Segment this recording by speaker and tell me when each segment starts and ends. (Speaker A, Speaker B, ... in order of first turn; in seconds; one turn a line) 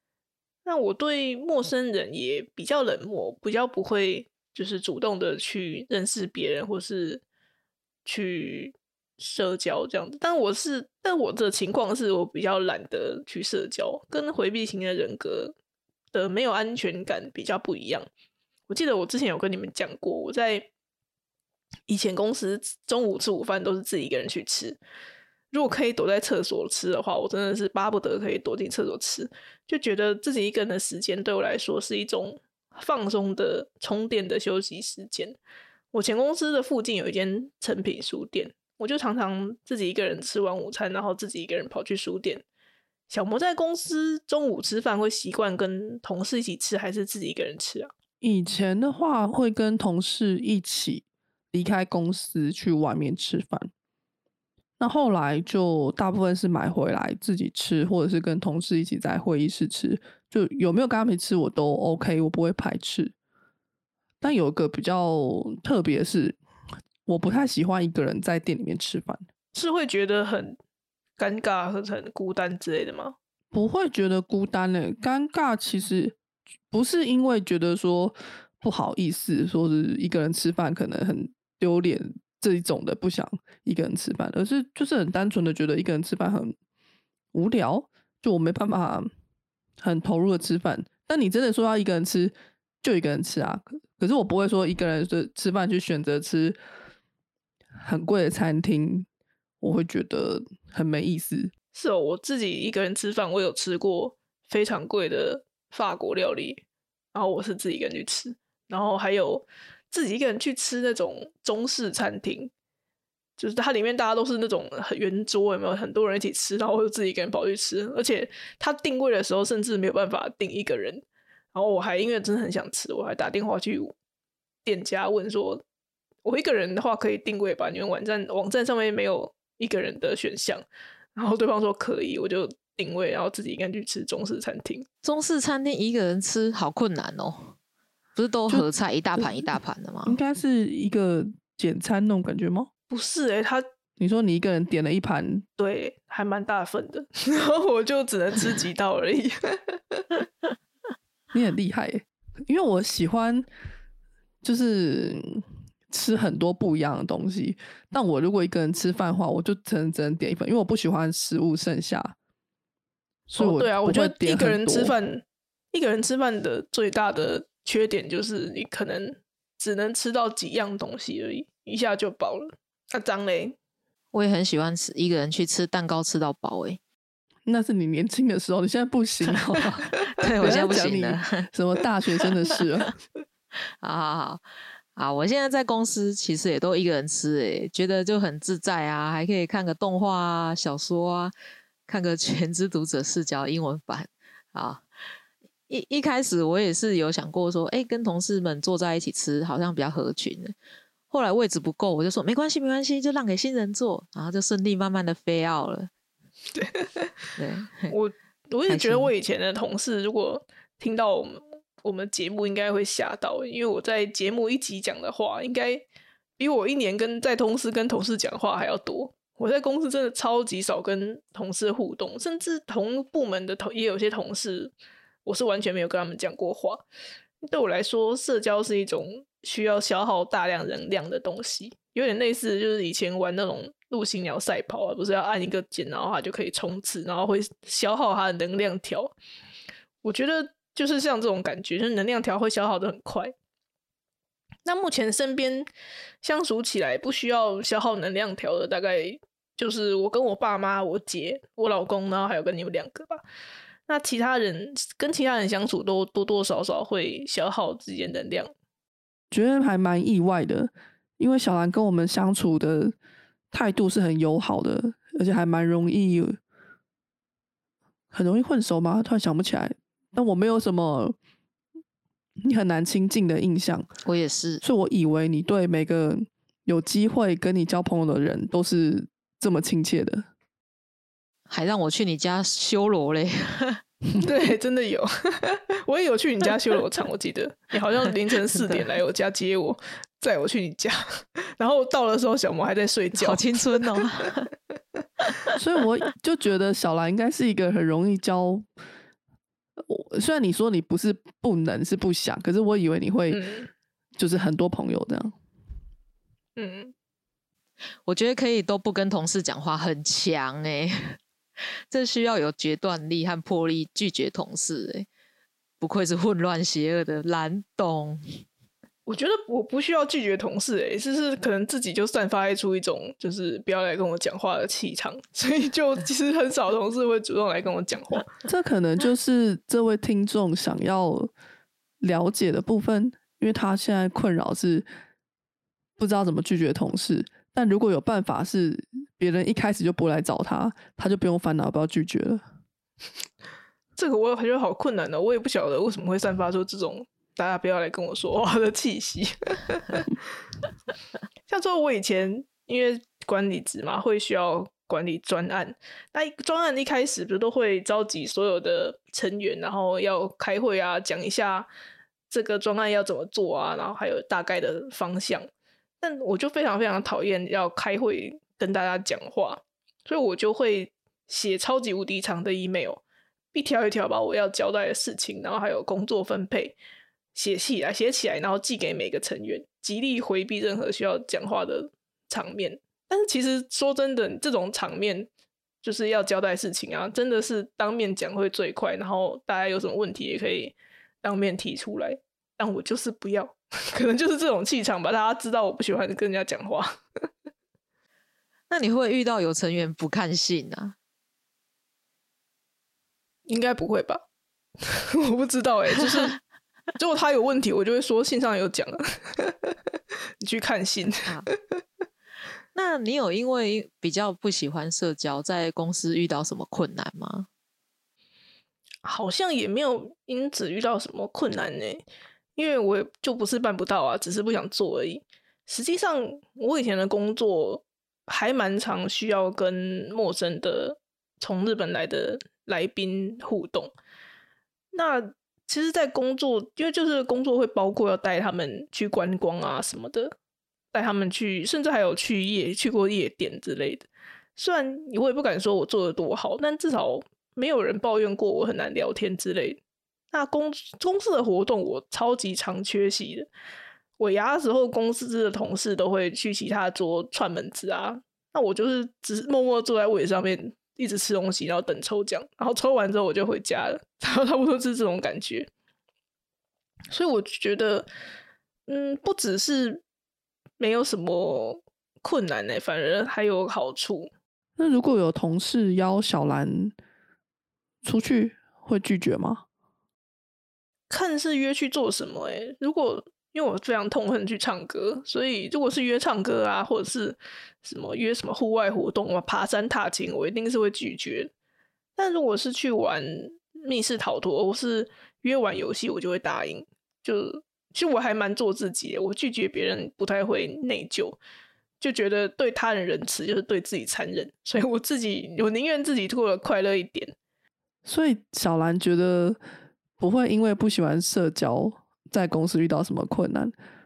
Speaker A: 0.6-7.2
Speaker A: 8.1-15.5
Speaker A: 16.1-18.1
Speaker A: 18.7-20.7
Speaker A: 21.9-24.8
Speaker A: 25.5-35.4
Speaker A: 35.9-42.4
Speaker A: 43.1-47.9
Speaker B: 48.2-53.7
Speaker B: 54.8-63.1
Speaker B: 64.2-66.4
Speaker B: 67.0-69.2
Speaker A: 69.5-70.6
Speaker A: 71.2-73.2
Speaker B: 73.5-76.2
Speaker B: 76.7-86.5
Speaker B: 87.3-89.1
Speaker B: 89.8-96.6
Speaker B: 97.8-99.1
Speaker B: 99.6-101.5
Speaker A: 101.7-106.6
Speaker A: 107.1-112.5
Speaker A: 113.4-123.9
Speaker A: 124.6-125.6
Speaker A: 126.2-130.6
Speaker A: 131.2-134.8
Speaker C: 135.0-137.5
Speaker C: 138.1-140.2
Speaker B: 139.2-139.5
Speaker B: 140.1-142.7
Speaker A: 142.9-143.6
Speaker B: 144.0-145.4
Speaker A: 145.6-150.1
Speaker B: 151.3-153.5
Speaker B: 154.4-162.2
Speaker B: 163.3-164.9
Speaker A: 163.3-173.6
Speaker C: 174.1-176.8
Speaker B: 177.4-182.9
Speaker C: 180.1-181.4
Speaker C: 183.8-184.4
Speaker C: 184.9-191.3
Speaker C: 191.9-194.8
Speaker C: 195.7-200.5
Speaker C: 201.1-205.9
Speaker A: 206.5-207.1
Speaker C: 207.4-207.9
Speaker A: 207.9-215.8
Speaker C: 208.7-209.1
Speaker A: 216.4-224.7
Speaker A: 225.2-226.8
Speaker A: 227.4-239.1
Speaker A: 240.0-243.3
Speaker A: 244.6-245.7
Speaker A: 246.2-253.2
Speaker A: 253.9-258.5
Speaker B: 259.3-262.9
Speaker B: 263.5-266.4
Speaker B: 268.1-271.1
Speaker B: 272.4-273.9
Speaker C: 274.0-274.6
Speaker B: 274.6-280.2
Speaker C: 281.5-283.8
Speaker A: 284.2-294.0
Speaker C: 288.5-288.9
Speaker C: 293.2-294.5
Speaker B: 295.6-298.7
Speaker B: 299.8-303.4
Speaker A: 303.3-303.7
Speaker B: 304.2-305.4
Speaker A: 306.6-306.9
Speaker C: 308.1-311.2
Speaker C: 311.9-315.1
Speaker C: 315.8-318.2
Speaker A: 319.1-328.3
Speaker B: 328.4-331.3
Speaker B: 332.0-334.9
Speaker B: 336.0-342.4
Speaker A: 344.0-350.1
Speaker A: 351.5-361.7
Speaker A: 362.3-365.5
Speaker A: 366.0-373.0
Speaker A: 373.5-376.8
Speaker A: 377.3-385.3
Speaker A: 385.8-397.2
Speaker C: 398.7-400.9
Speaker A: 403.5-404.2
Speaker A: 404.8-406.4
Speaker A: 407.0-409.8
Speaker A: 410.4-411.8
Speaker C: 412.7-417.5
Speaker A: 419.0-422.0
Speaker A: 422.6-433.9
Speaker A: 434.9-440.3
Speaker A: 440.9-449.8
Speaker A: 450.3-453.5
Speaker A: 454.2-465.7
Speaker A: 467.1-468.1
Speaker A: 468.9-470.0
Speaker A: 470.8-474.3
Speaker B: 474.8-476.9
Speaker B: 478.0-479.6
Speaker A: 481.1-491.5
Speaker A: 492.1-501.4
Speaker A: 502.0-507.3
Speaker B: 508.0-509.6
Speaker B: 510.2-513.7